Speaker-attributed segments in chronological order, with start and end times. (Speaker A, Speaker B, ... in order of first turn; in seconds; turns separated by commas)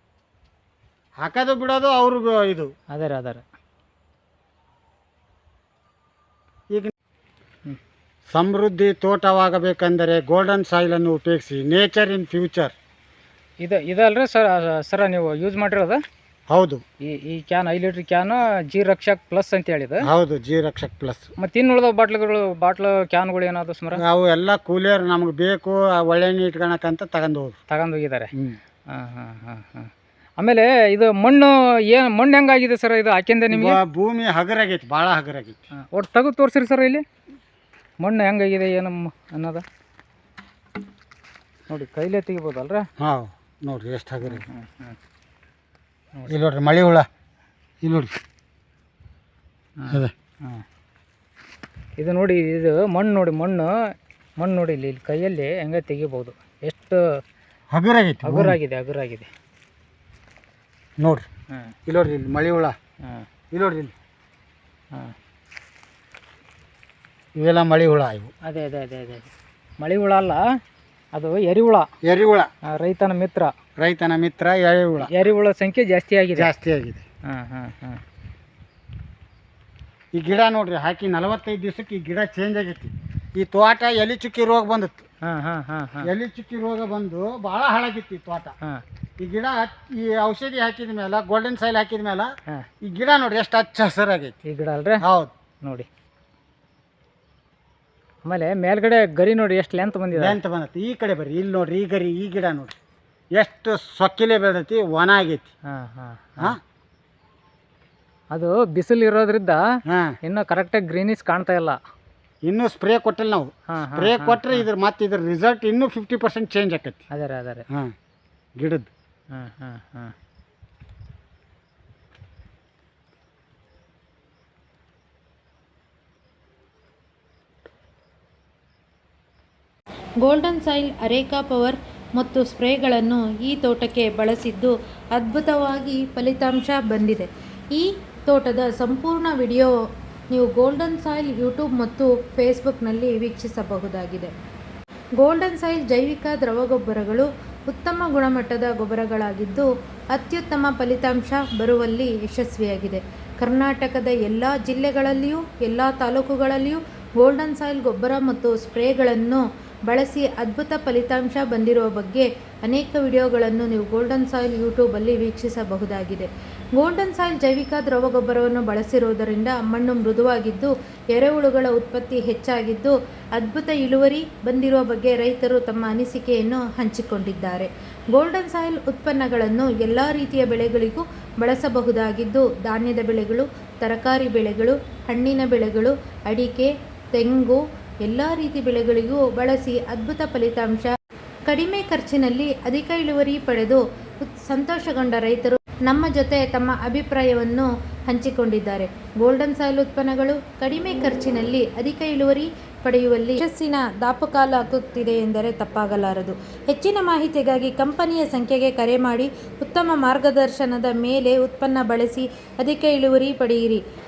Speaker A: 1.2-2.7, Speaker B: 2.9-3.4, Speaker A: 8.3-12.7, Speaker B: 13.6-16.0, Speaker A: 16.5-16.8, Speaker B: 17.1-20.0, Speaker A: 20.0-21.3, Speaker B: 21.4-24.0, Speaker A: 24.0-27.6, Speaker B: 27.7-28.3, Speaker B: 28.9-33.8, Speaker A: 33.5-35.6, Speaker B: 35.8-37.0, Speaker B: 38.0-39.6, Speaker B: 41.7-42.9, Speaker A: 43.0-44.5, Speaker B: 44.3-45.0, Speaker A: 46.3-47.1, Speaker A: 47.8-48.1, Speaker B: 49.8-50.6, Speaker A: 49.9-50.1, Speaker B: 52.0-53.7, Speaker B: 54.4-57.0, Speaker A: 57.7-58.6, Speaker B: 58.2-59.3, Speaker A: 61.0-61.3, Speaker A: 61.9-62.8, Speaker A: 63.5-63.9, Speaker A: 67.4-68.3, Speaker B: 68.5-69.3, Speaker B: 69.8-70.4, Speaker B: 71.1-71.9, Speaker A: 72.0-72.5, Speaker B: 72.7-73.5, Speaker A: 73.8-75.1, Speaker B: 75.1-76.5, Speaker A: 76.3-77.0, Speaker B: 77.3-78.0, Speaker A: 80.2-85.0, Speaker B: 85.2-86.1, Speaker A: 86.0-88.5, Speaker A: 89.2-92.3, Speaker A: 92.8-94.4, Speaker B: 94.5-95.0, Speaker A: 95.0-95.3, Speaker B: 95.6-95.9, Speaker B: 98.3-100.4, Speaker A: 100.1-102.8, Speaker A: 103.4-105.5, Speaker B: 105.7-106.6, Speaker B: 108.3-109.6, Speaker A: 109.9-110.2, Speaker B: 110.2-111.8, Speaker A: 112.5-117.0, Speaker B: 113.7-114.7, Speaker B: 117.1-117.6, Speaker A: 118.6-118.9, Speaker B: 119.3-120.2, Speaker C: 130.2-139.7, Speaker C: 140.3-144.3, Speaker C: 145.2-190.9, Speaker C: 191.5-213.8